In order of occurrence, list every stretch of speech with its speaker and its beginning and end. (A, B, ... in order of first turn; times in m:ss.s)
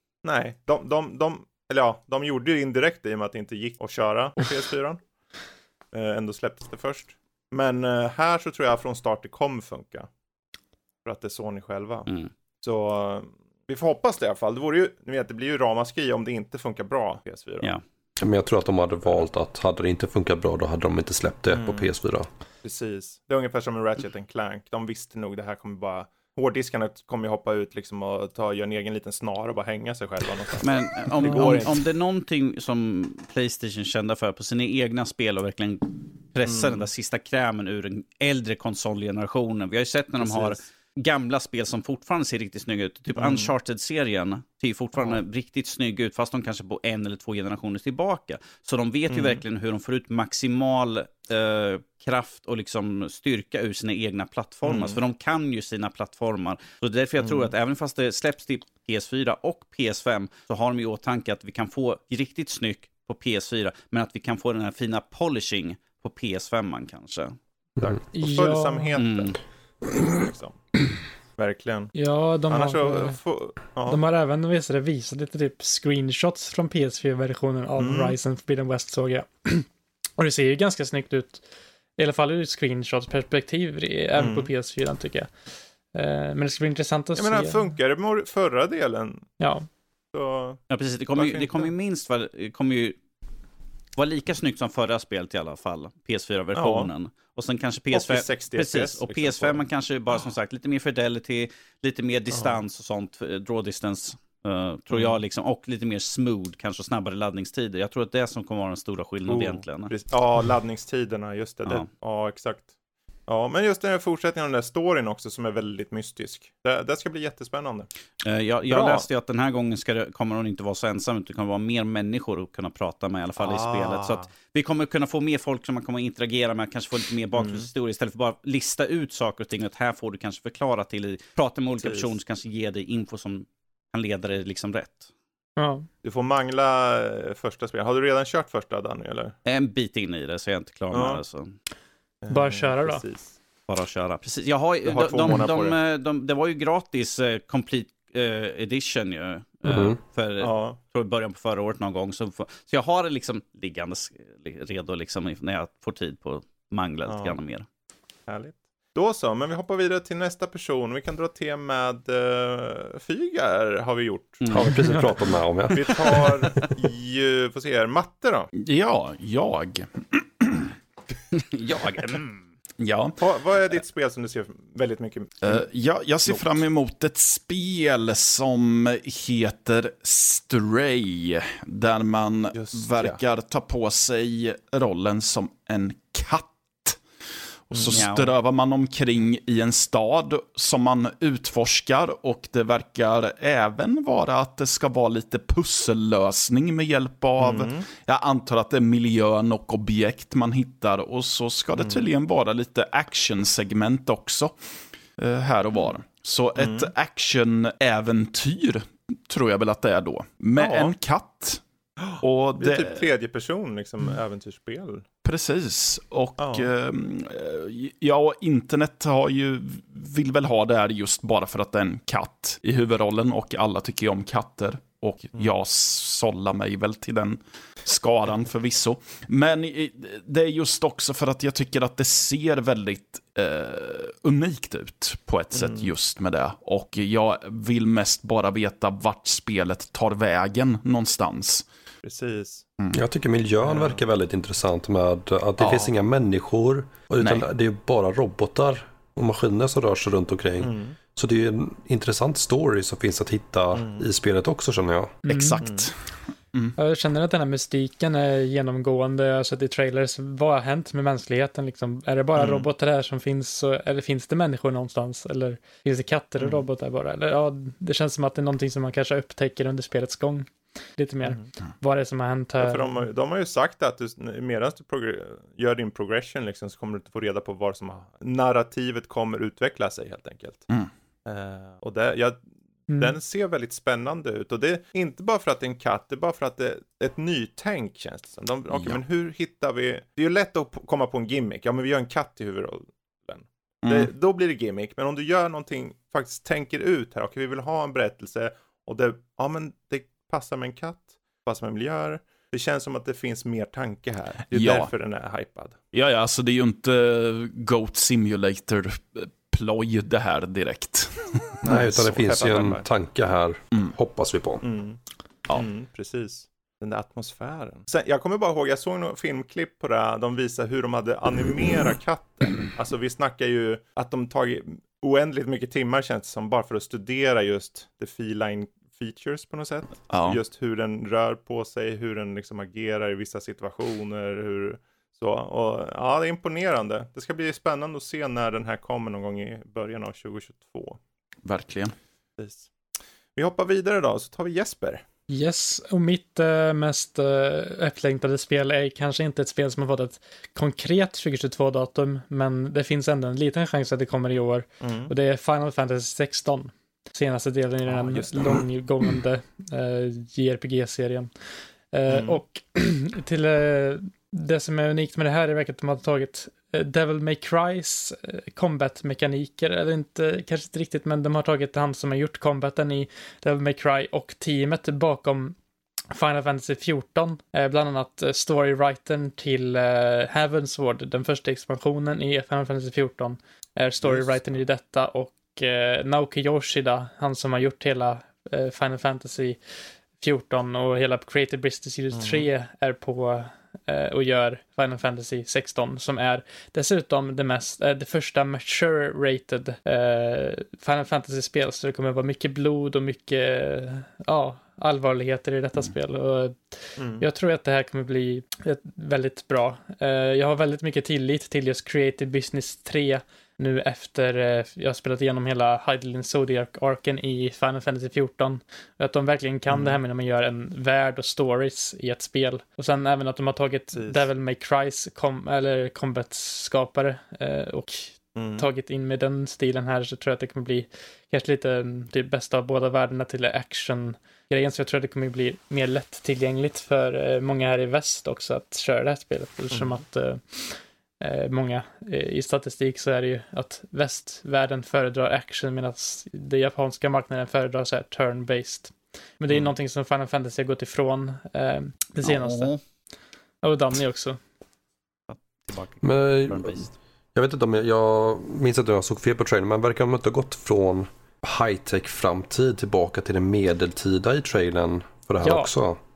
0:00.2-0:05.0 A
0:05.9-0:10.1 A
0:11.0-0:12.1 A
0:12.6-0:17.7 A
0:18.2-0:22.3 B
0:21.5-0:21.9 A
0:22.6-0:31.8 A
0:30.6-1:07.4 C
0:36.5-0:36.8 A
0:40.2-0:40.6 A
0:43.2-0:43.5 A
0:49.1-0:49.4 A
0:54.6-0:55.0 A
0:57.2-0:57.5 A
1:07.8-1:09.4 A
1:08.1-1:09.0 D
1:09.0-1:09.4 C
1:10.0-1:10.6 A
1:11.4-1:11.9 A
1:12.0-1:13.2 D
1:12.5-1:14.0 A
1:13.9-1:21.4 D
1:17.8-1:18.2 A
1:22.0-1:25.3 D
1:24.2-1:24.5 A
1:25.9-1:27.6 D
1:27.2-1:29.3 A
1:29.4-1:29.6 D
1:30.1-1:30.6 A
1:30.7-1:33.0 C
1:31.2-1:31.7 A
1:34.0-1:49.9 C
1:36.6-1:36.9 A
1:37.9-1:39.6 A
1:42.3-1:42.6 A
1:44.9-1:45.2 A
1:49.3-1:52.7 A
1:53.3-1:57.9 A
1:58.2-2:15.1 C
1:58.7-1:59.1 A
2:03.4-2:04.2 A
2:07.4-2:07.7 A
2:11.8-2:12.1 A
2:15.6-2:15.9 D
2:16.0-2:19.4 A
2:19.5-2:21.5 C
2:20.9-2:21.2 A
2:22.2-2:23.3 A
2:22.3-2:23.0 D
2:23.7-2:37.7 C
2:24.8-2:25.8 A
2:29.7-2:30.0 B
2:30.4-2:30.8 A
2:37.1-2:37.4 A
2:38.3-2:44.4 A
2:44.4-2:44.7 C
2:44.5-2:46.3 B
2:45.7-2:48.5 A
2:48.6-2:50.7 E
2:51.4-2:52.4 C
2:52.8-2:53.2 E
2:53.2-2:55.6 A
2:55.4-3:07.0 E
2:56.3-2:56.6 A
3:02.6-3:03.2 A
3:07.7-3:24.6 E
3:07.7-3:08.0 A
3:07.9-3:08.3 C
3:17.4-3:17.8 A
3:21.8-3:22.1 A
3:25.2-3:31.6 E
3:26.6-3:26.9 A
3:30.6-3:30.9 A
3:32.0-3:35.0 A
3:32.2-3:33.1 E
3:35.2-4:01.6 E
3:36.4-3:36.7 A
3:55.6-3:55.9 A
4:02.0-4:02.6 A
4:02.9-4:15.2 B
4:03.6-4:04.0 A
4:05.6-4:05.9 E
4:07.2-4:07.4 E
4:10.6-4:11.0 A
4:13.7-4:14.0 A
4:15.2-4:15.6 D
4:15.3-4:16.8 E
4:15.6-4:15.9 A
4:16.8-4:32.8 D
4:22.4-4:22.7 A
4:32.6-4:40.7 A
4:41.3-4:42.4 A
4:42.9-4:43.2 D
4:43.0-5:05.8 A
4:48.7-4:49.0 E
4:53.8-4:54.1 E
5:04.5-5:04.9 E
5:05.9-5:11.8 E
5:11.6-5:12.8 A
5:11.6-5:14.6 B
5:14.6-5:15.0 A
5:15.5-5:41.0 A
5:30.1-5:30.4 E
5:41.4-5:41.9 E
5:42.4-5:42.7 A
5:43.4-5:45.0 A
5:45.3-6:01.3 D
5:54.8-5:55.1 A
5:57.9-5:58.4 A
6:01.9-6:15.6 D
6:02.1-6:02.4 A
6:16.1-6:29.6 D
6:24.0-6:24.4 A
6:30.2-7:32.7 D
6:32.1-6:32.5 A
6:47.0-6:47.2 A
6:59.7-7:00.0 A
7:03.9-7:04.2 A
7:08.4-7:08.7 A
7:32.2-7:32.8 C
7:33.6-7:34.4 D
7:35.3-7:36.9 C
7:36.0-7:46.0 B
7:45.4-7:45.7 D